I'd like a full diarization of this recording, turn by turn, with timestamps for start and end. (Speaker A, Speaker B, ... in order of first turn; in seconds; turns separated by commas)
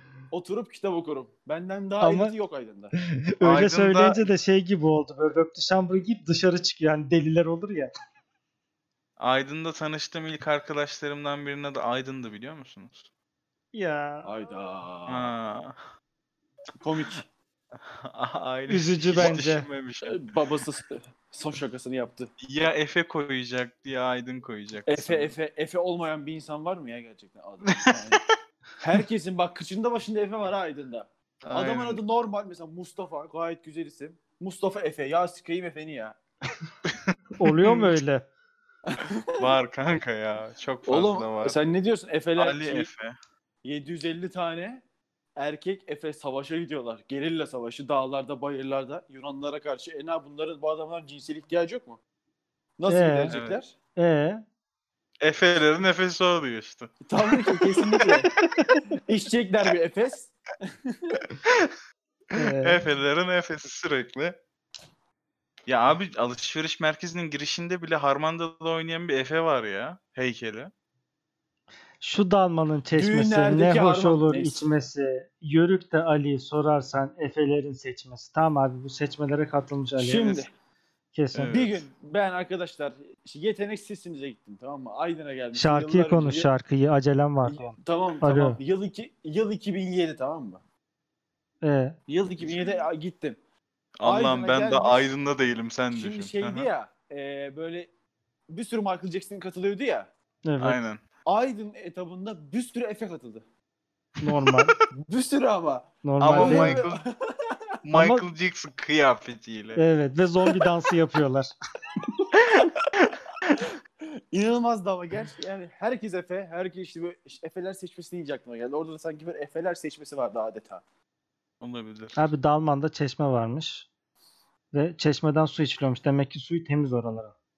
Speaker A: 0.3-2.9, Speaker B: 2.0-2.3, Speaker B: 3.4-7.9, Speaker C: 3.4-4.3, Speaker C: 9.2-13.1, Speaker B: 13.7-14.3, Speaker A: 14.2-15.3, Speaker C: 15.1-15.8, Speaker A: 16.8-17.2, Speaker C: 18.0-20.2, Speaker B: 18.7-19.7, Speaker A: 20.0-22.3, Speaker C: 22.4-25.3, Speaker A: 24.9-28.2, Speaker A: 28.8-36.2, Speaker C: 31.4-32.0, Speaker B: 37.4-38.3, Speaker C: 37.6-38.0, Speaker A: 38.9-39.5, Speaker C: 39.4-41.6, Speaker A: 40.9-42.9, Speaker C: 42.4-43.1, Speaker A: 43.6-44.8, Speaker A: 45.4-52.0, Speaker A: 52.8-53.8, Speaker B: 52.9-53.3, Speaker C: 53.3-53.6, Speaker B: 54.0-54.4, Speaker C: 55.2-58.2, Speaker A: 57.0-58.3, Speaker A: 59.1-60.4, Speaker A: 60.9-61.2, Speaker C: 61.4-61.7, Speaker B: 62.4-62.8, Speaker C: 62.5-64.4, Speaker C: 65.7-70.7, Speaker B: 72.0-80.4, Speaker A: 72.9-74.6, Speaker A: 80.0-80.5, Speaker B: 81.1-81.5, Speaker C: 81.3-81.8, Speaker A: 81.5-86.5, Speaker B: 85.5-88.6, Speaker A: 87.4-90.6, Speaker B: 91.6-92.0, Speaker A: 92.1-93.4, Speaker C: 92.4-92.8, Speaker C: 94.0-96.7, Speaker A: 94.0-95.1, Speaker A: 95.9-97.9, Speaker A: 98.5-100.1, Speaker B: 100.5-100.8, Speaker C: 100.6-101.0, Speaker A: 101.2-103.4, Speaker B: 104.2-104.7, Speaker A: 104.9-107.5, Speaker B: 106.0-106.8, Speaker C: 106.2-107.0, Speaker C: 107.8-109.8, Speaker B: 107.9-108.3, Speaker B: 109.8-111.5, Speaker A: 114.3-120.8, Speaker C: 121.6-122.2, Speaker B: 122.2-123.9, Speaker B: 124.7-127.3